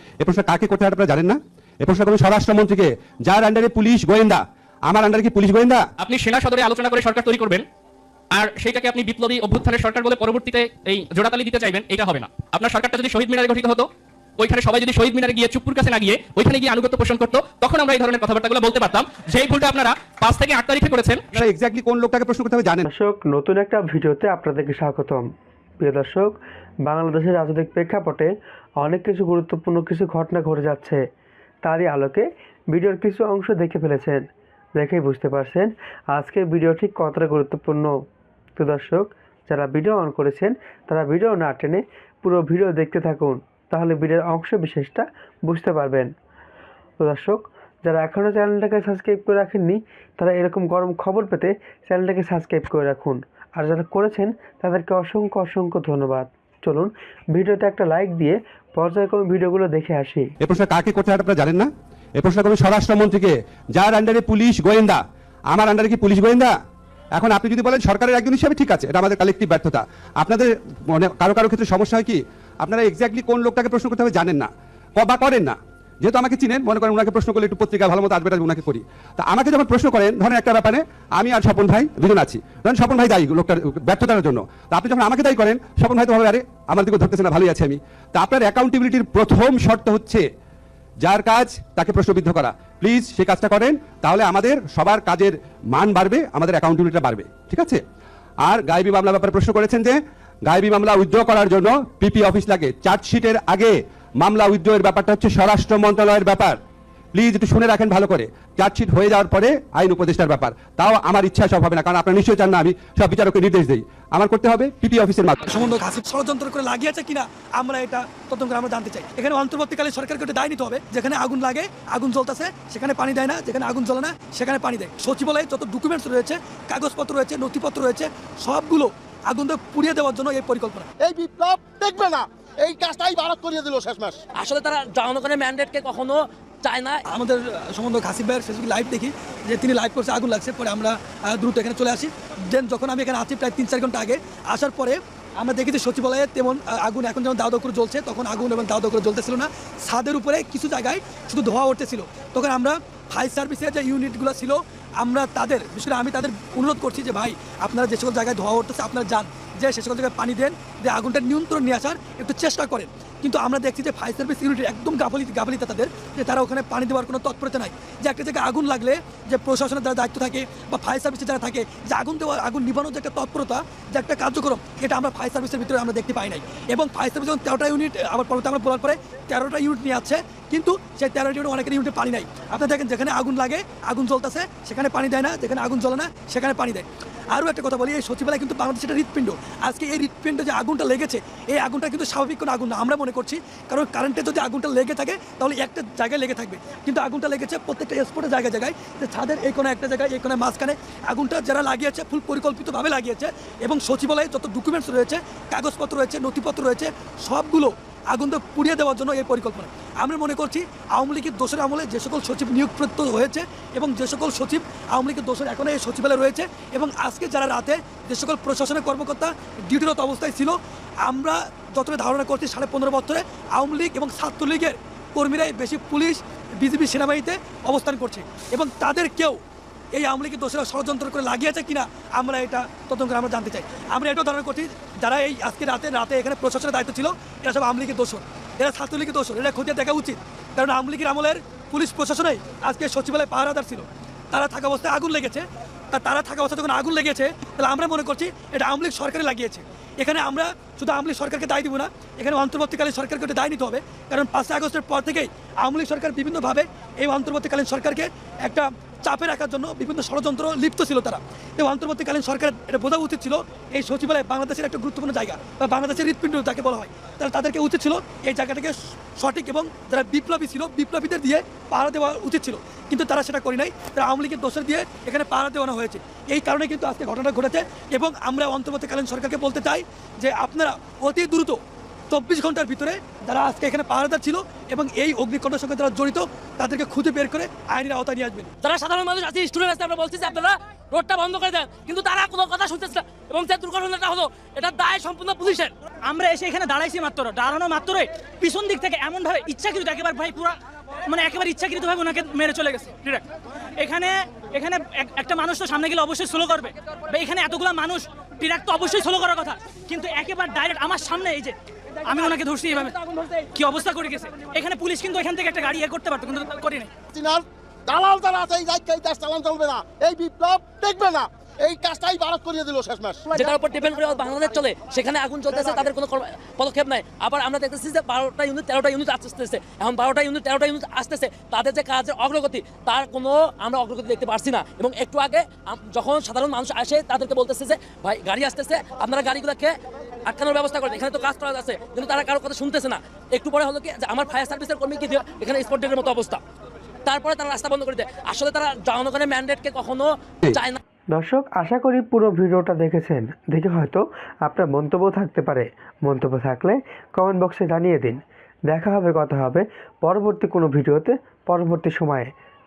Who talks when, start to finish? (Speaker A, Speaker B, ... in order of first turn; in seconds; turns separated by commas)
Speaker A: 0.2-5.9, Speaker B: 6.0-7.7, Speaker B: 8.3-21.3, Speaker A: 21.4-22.9, Speaker C: 22.9-25.2, Speaker C: 25.8-26.4, Speaker C: 26.9-31.0, Speaker C: 31.6-34.2, Speaker C: 34.8-37.9, Speaker C: 38.6-46.1, Speaker C: 47.0-60.3, Speaker A: 60.4-66.5, Speaker A: 67.2-90.2, Speaker A: 91.0-97.8, Speaker A: 98.4-106.6, Speaker A: 107.1-115.5, Speaker D: 115.5-130.9, Speaker E: 131.0-134.2, Speaker F: 134.4-137.0, Speaker D: 137.1-229.4, Speaker D: 229.9-288.5, Speaker F: 288.6-295.7, Speaker G: 296.1-300.6, Speaker G: 301.1-303.2, Speaker G: 303.8-313.0, Speaker G: 313.5-316.9, Speaker E: 317.1-323.5, Speaker F: 323.3-346.4, Speaker F: 347.1-350.8, Speaker C: 351.1-362.3